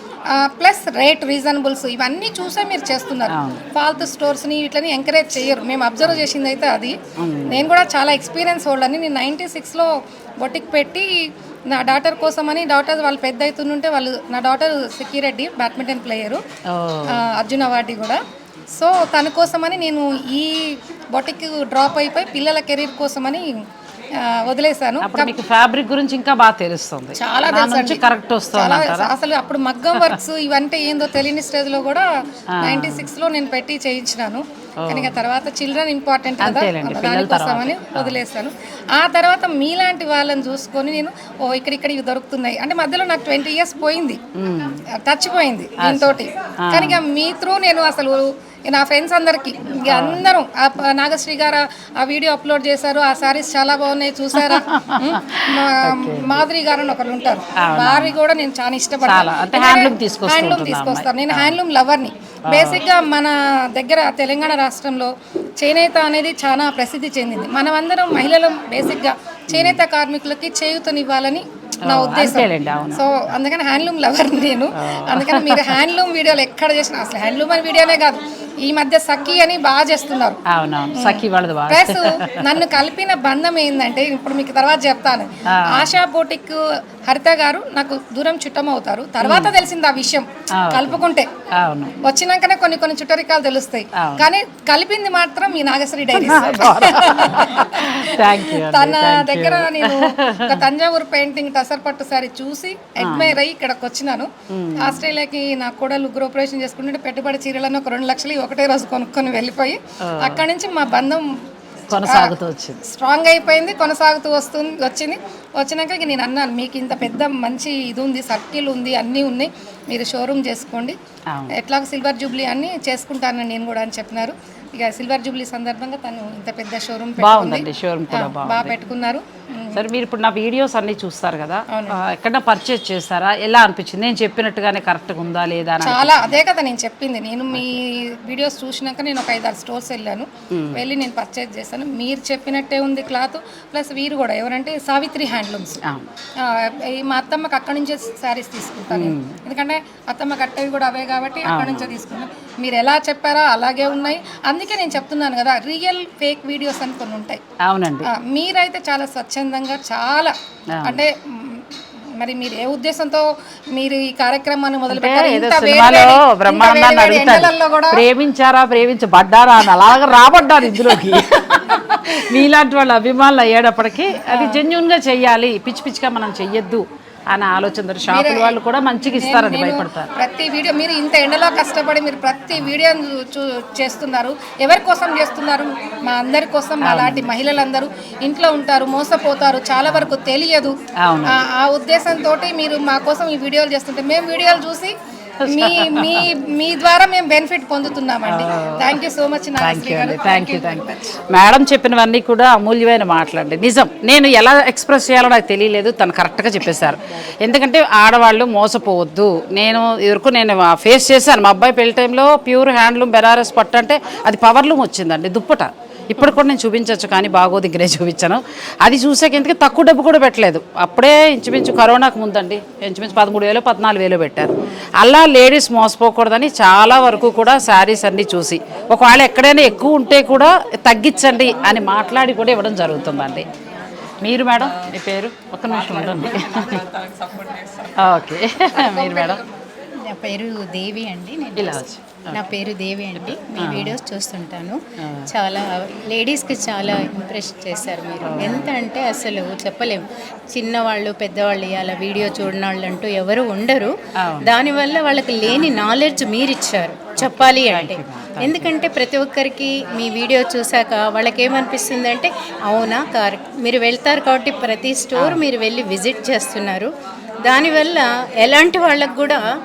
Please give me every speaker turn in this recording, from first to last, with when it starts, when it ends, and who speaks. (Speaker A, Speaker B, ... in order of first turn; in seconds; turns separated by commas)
Speaker A: 0.3-11.1, Speaker B: 3.3-3.6, Speaker B: 7.2-7.7, Speaker A: 11.7-16.4, Speaker B: 16.7-17.2, Speaker A: 17.1-18.2, Speaker A: 18.7-23.4, Speaker A: 24.2-25.3, Speaker B: 25.0-29.1, Speaker A: 27.1-28.0, Speaker A: 28.5-32.0, Speaker B: 32.5-33.0, Speaker A: 32.6-44.2, Speaker B: 34.8-35.1, Speaker B: 36.4-38.2, Speaker B: 44.4-44.8, Speaker A: 45.0-80.4, Speaker B: 45.8-47.0, Speaker B: 49.9-50.2, Speaker B: 54.4-56.3, Speaker B: 57.6-58.1, Speaker B: 59.0-61.6, Speaker B: 62.5-62.8, Speaker B: 69.5-69.8, Speaker B: 71.8-73.0, Speaker B: 74.7-75.8, Speaker B: 80.5-82.3, Speaker A: 80.9-91.3, Speaker B: 85.5-85.9, Speaker B: 89.2-89.5, Speaker B: 90.6-91.0, Speaker B: 91.5-92.0, Speaker A: 92.0-111.2, Speaker B: 94.0-94.3, Speaker B: 96.1-100.7, Speaker B: 103.0-103.4, Speaker B: 104.5-105.0, Speaker B: 110.0-110.5, Speaker B: 111.9-112.8, Speaker A: 111.9-121.0, Speaker A: 121.5-129.8, Speaker B: 127.2-128.7, Speaker B: 129.7-136.4, Speaker A: 131.7-131.9, Speaker A: 135.8-145.8, Speaker B: 140.5-140.8, Speaker A: 146.4-157.4, Speaker B: 148.9-149.3, Speaker B: 151.5-151.9, Speaker B: 157.6-158.1, Speaker A: 158.1-161.6, Speaker B: 160.7-161.0, Speaker A: 162.2-168.0, Speaker B: 164.9-180.1, Speaker A: 174.2-174.6, Speaker A: 178.1-194.9, Speaker B: 186.8-187.3, Speaker B: 191.0-191.4, Speaker B: 195.4-196.3, Speaker A: 195.4-201.2, Speaker B: 198.2-199.0, Speaker B: 199.6-233.5, Speaker B: 234.2-236.9, Speaker B: 238.0-239.4, Speaker C: 238.8-239.3, Speaker C: 240.1-266.9, Speaker B: 241.6-242.4, Speaker B: 243.2-244.0, Speaker B: 248.2-248.7, Speaker B: 254.2-254.5, Speaker B: 257.1-258.7, Speaker B: 265.1-265.4, Speaker C: 267.4-269.4